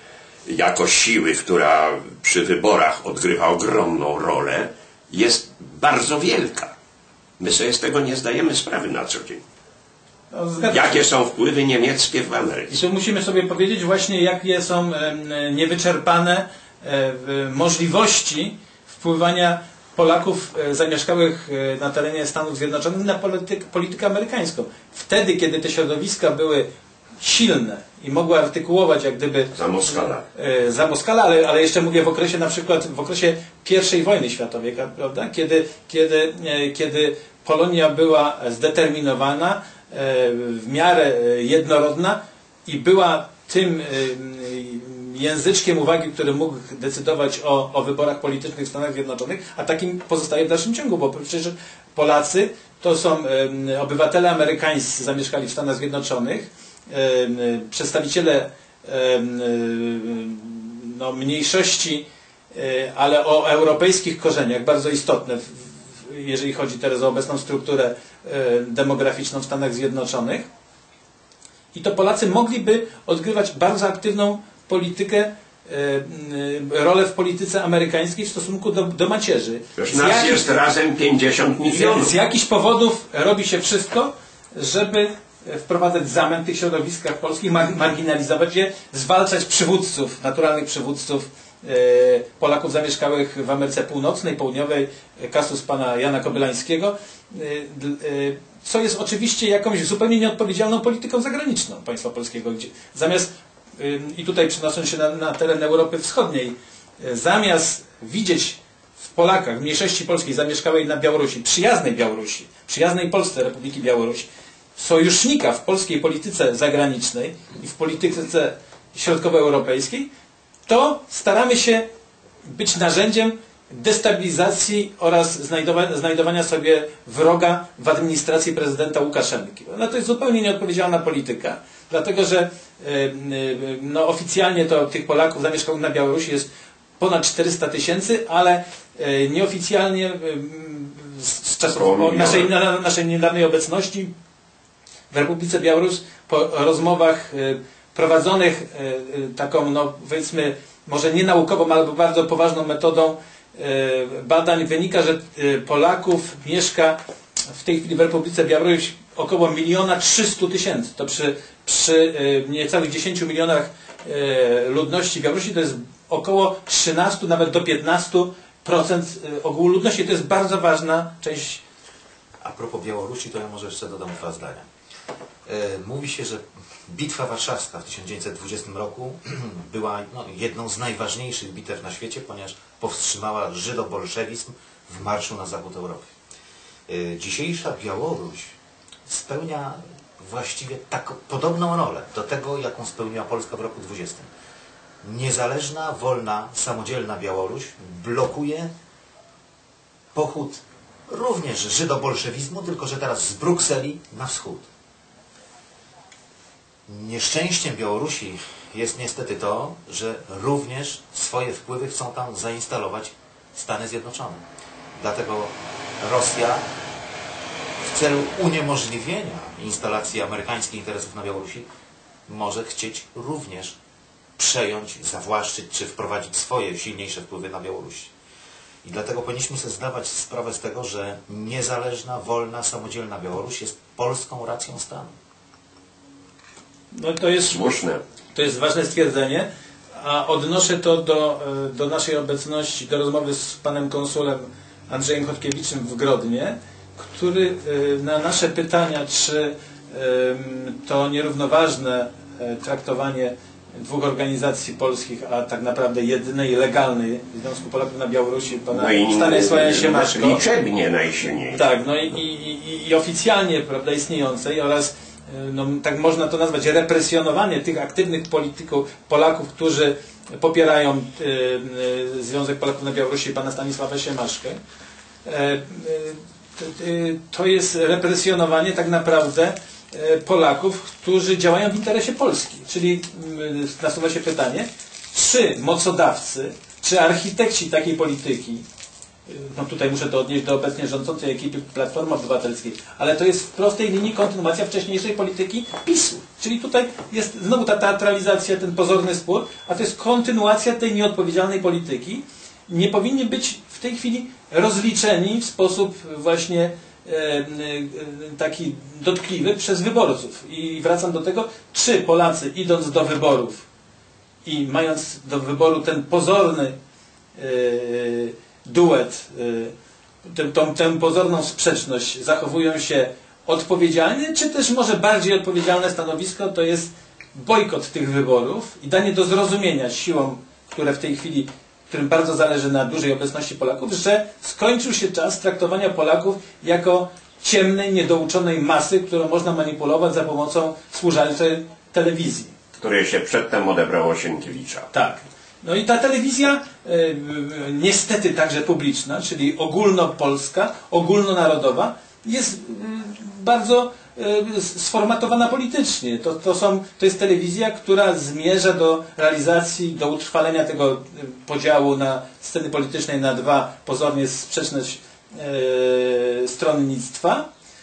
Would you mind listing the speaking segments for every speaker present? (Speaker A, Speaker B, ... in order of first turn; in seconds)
Speaker A: 0.5-6.7, 7.4-9.4, 10.7-12.8, 29.5-30.2, 79.8-82.1, 141.8-142.5, 237.5-238.0, 258.7-261.7, 342.8-344.9
Speaker B: 10.3-11.1, 12.7-26.7, 27.2-70.5, 71.7-80.6, 81.6-120.1, 120.7-121.8, 122.5-144.1, 145.1-157.0, 157.5-171.6, 236.9-237.7, 238.3-260.5, 261.5-274.6, 275.2-288.6, 289.3-313.6, 314.4-316.7, 317.4-319.7, 320.2-342.5, 344.9-367.4
Speaker C: 172.4-174.7, 175.4-186.1, 186.9-188.6, 189.1-194.3, 195.0-198.7, 200.1-204.6, 206.9-214.4, 214.9-216.7, 217.8-221.7, 222.3-223.8, 224.4-228.1, 228.8-235.1